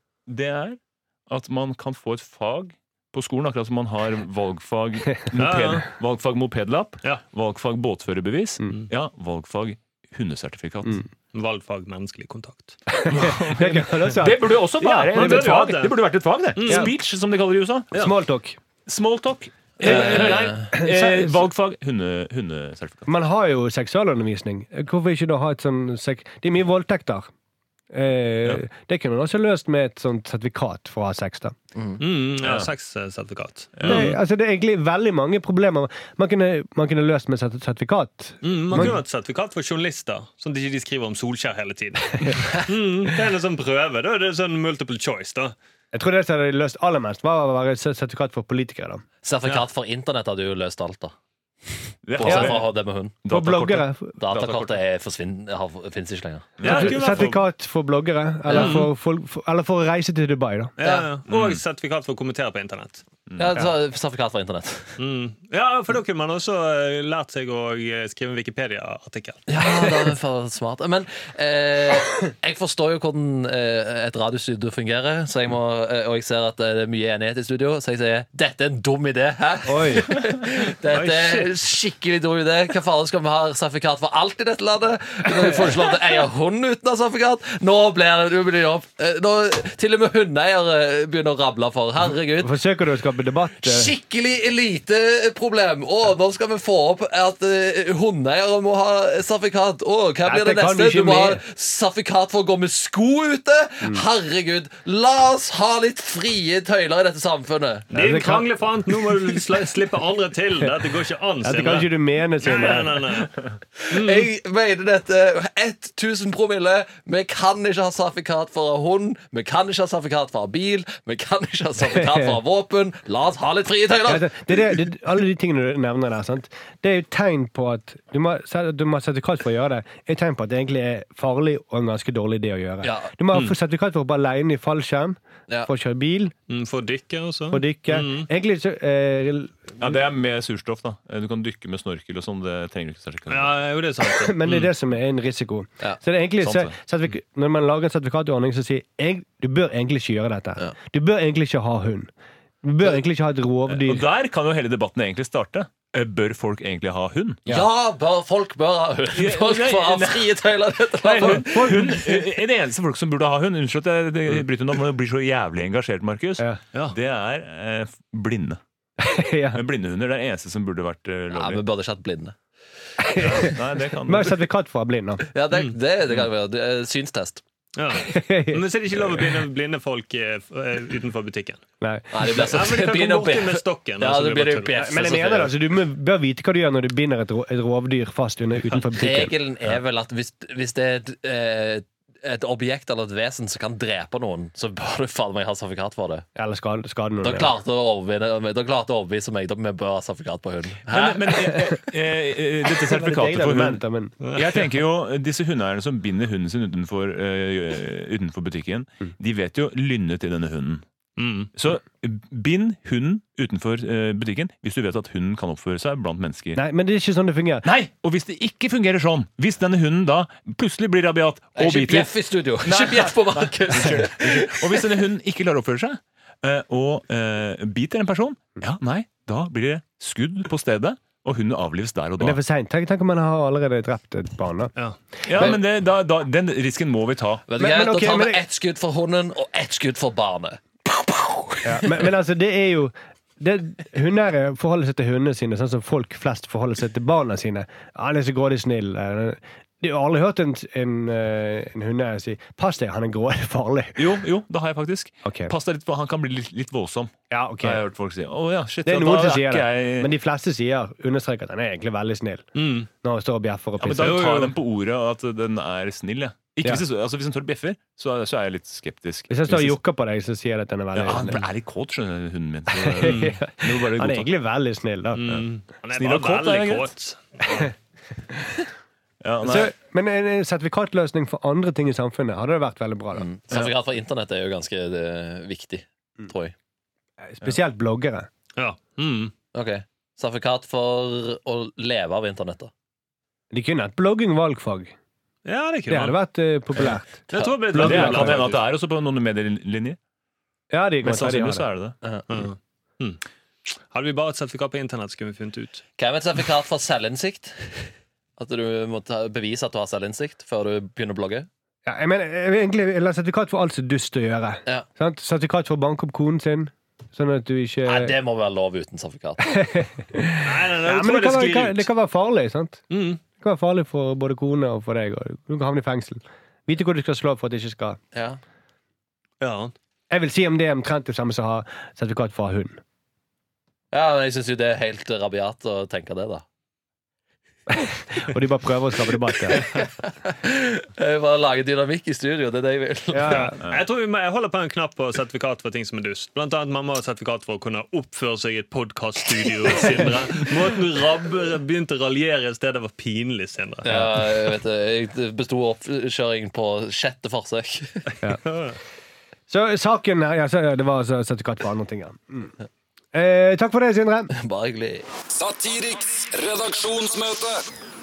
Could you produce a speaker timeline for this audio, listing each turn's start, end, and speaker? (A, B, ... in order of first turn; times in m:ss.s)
0:00.3-0:11.0 A
0:05.3-0:05.9 B
0:11.3-0:12.9 B
0:12.9-0:15.6 C
0:13.1-0:18.0 A
0:14.8-0:16.9 B
0:16.7-0:16.9 C
0:17.9-0:18.6 C
0:18.8-0:23.1 A
0:19.8-0:21.4 C
0:19.8-0:20.6 D
0:23.1-0:27.3 C
0:27.9-0:31.5 C
0:32.0-0:34.1 B
0:32.4-0:32.7 A
0:33.8-0:34.2 A
0:33.8-0:39.0 C
0:38.4-0:45.5 B
0:45.9-0:49.0 C
0:49.2-0:51.1 D
0:52.0-0:52.7 A
0:52.2-0:53.2 D
0:52.2-0:52.6 C
0:53.2-0:54.8 A
0:53.2-0:54.2 C
0:54.2-0:56.8 D
0:56.6-0:57.1 A
0:56.6-0:57.4 B
0:56.6-1:00.7 C
0:58.5-0:58.8 D
0:58.5-0:58.9 B
1:00.8-1:03.0 B
1:00.8-1:01.1 D
1:01.3-1:01.6 A
1:03.3-1:03.5 A
1:03.4-1:05.0 D
1:05.0-1:10.1 B
1:09.5-1:32.6 D
1:19.7-1:20.1 C
1:20.9-1:21.5 B
1:32.4-1:33.9 C
1:33.6-1:47.9 D
1:40.2-1:41.4 C
1:47.9-1:53.3 B
1:47.9-1:49.4 C
1:51.4-1:53.1 C
1:53.8-2:04.8 D
1:53.9-1:54.3 B
2:01.8-2:02.4 C
2:04.0-2:16.3 C
2:12.8-2:13.1 D
2:16.5-2:18.3 B
2:17.5-2:20.0 C
2:19.8-2:23.6 A
2:23.3-2:24.7 B
2:24.0-2:32.1 C
2:26.4-2:26.7 A
2:32.6-2:34.0 C
2:33.7-2:37.4 A
2:37.5-2:42.2 D
2:39.1-2:40.3 A
2:40.9-2:48.6 A
2:41.2-2:42.0 C
2:49.0-2:49.6 C
2:49.5-2:51.6 A
2:51.3-2:52.4 D
2:53.0-2:55.2 C
2:53.1-2:54.4 A
2:55.3-2:57.4 D
2:57.7-3:01.6 B
2:58.0-2:59.3 C
3:01.8-3:02.6 C
3:02.1-3:05.5 D
3:02.4-3:04.8 B
3:04.7-3:09.4 C
3:08.9-3:16.2 D
3:16.3-3:17.5 C
3:17.2-3:21.5 D
3:20.9-3:23.8 A
3:22.8-3:24.2 C
3:24.2-3:24.7 B
3:24.3-3:30.8 A
3:31.2-3:31.5 B
3:31.5-3:36.6 A
3:36.6-3:37.7 C
3:37.6-3:52.4 A
3:41.6-3:44.9 D
3:52.2-3:54.7 C
3:55.2-3:57.4 A
3:57.5-4:02.0 D
3:57.6-3:58.4 C
4:01.6-4:14.2 C
4:14.0-4:20.1 A
4:15.2-4:15.5 C
4:17.3-4:17.8 C
4:18.8-4:22.5 C
4:22.5-4:22.9 B
4:23.0-4:24.2 C
4:23.8-4:29.8 A
4:23.9-4:24.5 B
4:29.3-4:31.4 C
4:30.9-4:34.3 A
4:32.7-4:35.4 C
4:33.0-4:33.4 B
4:35.1-4:37.7 B
4:36.0-4:36.9 A
4:39.2-4:39.7 A
4:39.4-4:43.3 C
4:43.1-4:46.5 D
4:47.2-4:48.3 C
4:48.6-4:49.3 B
4:49.5-4:52.7 D
4:53.5-4:54.9 C
4:55.4-4:56.2 B
4:55.9-4:58.3 C
4:57.3-4:58.5 D
4:57.3-4:58.6 B
4:57.7-5:00.0 A
5:00.7-5:01.7 C
5:01.0-5:01.9 A
5:02.0-5:02.4 D
5:02.3-5:03.2 B
5:03.9-5:05.8 B
5:06.0-5:11.5 D
5:11.8-5:18.2 C
5:17.8-5:19.6 D
5:19.4-5:22.8 C
5:20.4-5:21.9 B
5:22.9-5:23.2 B
5:23.4-5:28.0 C
5:28.1-5:28.4 D
5:29.4-5:29.7 B
5:30.1-5:32.8 C
5:33.9-5:36.4 D
5:37.7-5:39.7 C
5:39.6-5:43.5 D
5:43.1-5:43.6 C
5:43.3-5:54.0 B
5:53.8-5:58.1 D
5:58.4-5:58.8 B
5:59.5-6:02.5 C
6:03.1-6:04.3 C
6:04.3-6:05.1 D
6:05.3-6:07.6 E